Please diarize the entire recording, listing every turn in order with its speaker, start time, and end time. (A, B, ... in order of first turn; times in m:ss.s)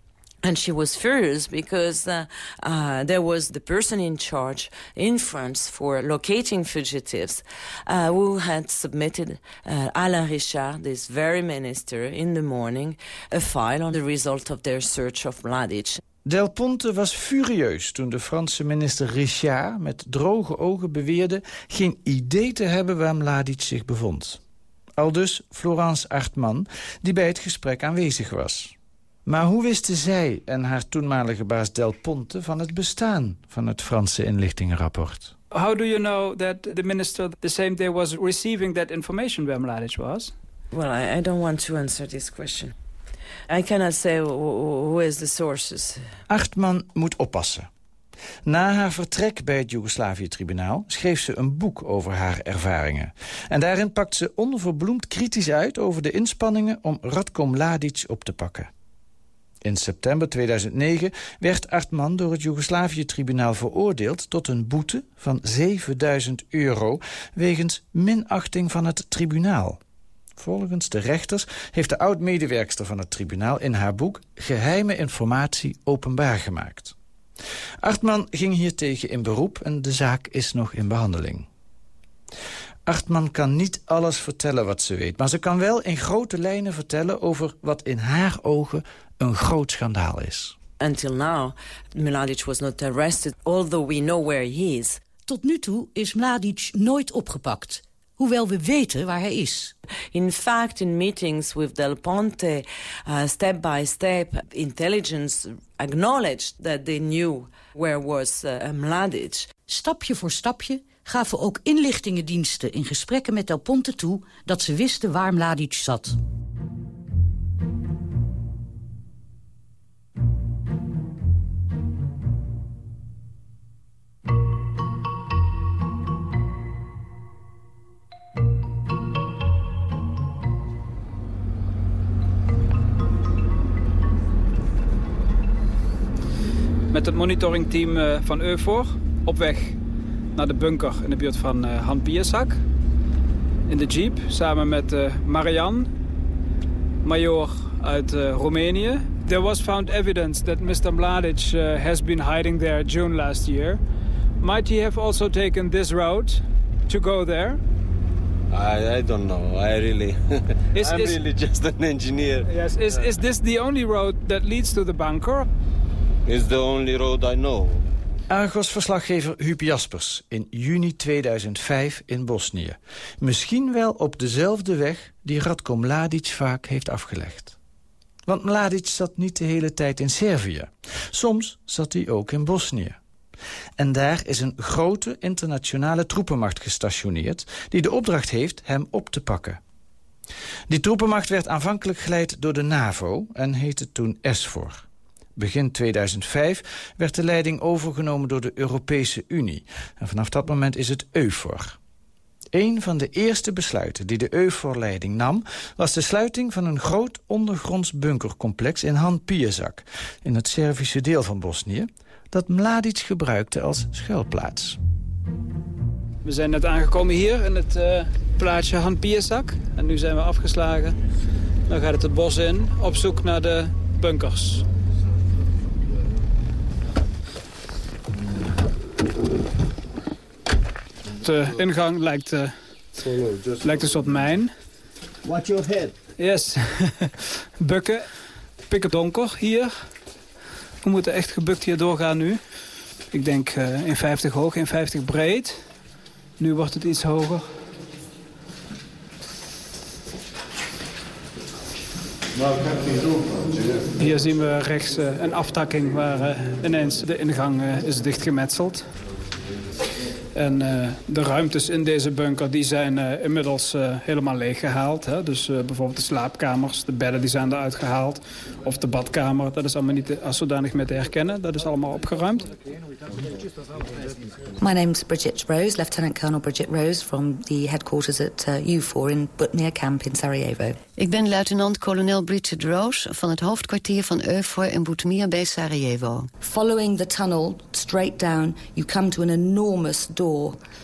0:00.4-0:16.0 A
0:16.2-0:24.4 B
0:25.0-0:28.7 B
0:29.2-0:35.3 B
0:35.5-0:40.3 C
0:40.7-0:42.7 A
0:43.5-0:46.0 A
0:46.3-0:47.7 B
0:48.4-0:58.7 B
0:59.6-1:09.8 B
1:10.4-1:16.9 B
1:17.8-1:21.5 B
1:22.8-1:30.6 B
1:30.8-1:35.0 A
1:35.2-1:39.7 D
1:40.1-1:49.5 A
1:49.7-1:56.2 D
2:16.9-2:19.8 C
2:20.3-2:22.6 C
2:23.7-2:25.9 C
2:27.0-2:33.8 C
2:34.4-2:37.6 C
2:38.5-2:40.2 E
2:40.7-2:41.2 C
2:40.7-2:43.1 E
2:42.4-2:45.5 C
2:46.2-2:47.8 E
2:48.3-2:57.6 B
2:58.2-3:03.0 B
3:03.8-3:09.6 B
3:10.7-3:14.8 B
3:15.4-3:21.8 B
3:22.5-3:34.8 B
3:36.2-3:41.0 C
3:41.7-3:44.6 C
3:51.2-3:52.5 C
3:53.0-3:53.6 E
3:53.6-3:54.5 C
3:55.2-3:55.9 E
3:56.2-3:58.1 C
3:58.6-3:59.9 C
4:00.8-4:02.4 C
4:03.1-4:05.6 C
4:06.4-4:07.6 C
4:14.0-4:18.9 C
4:20.3-4:32.5 C
4:34.6-4:40.8 F
4:41.0-4:46.3 G
4:46.4-4:50.6 F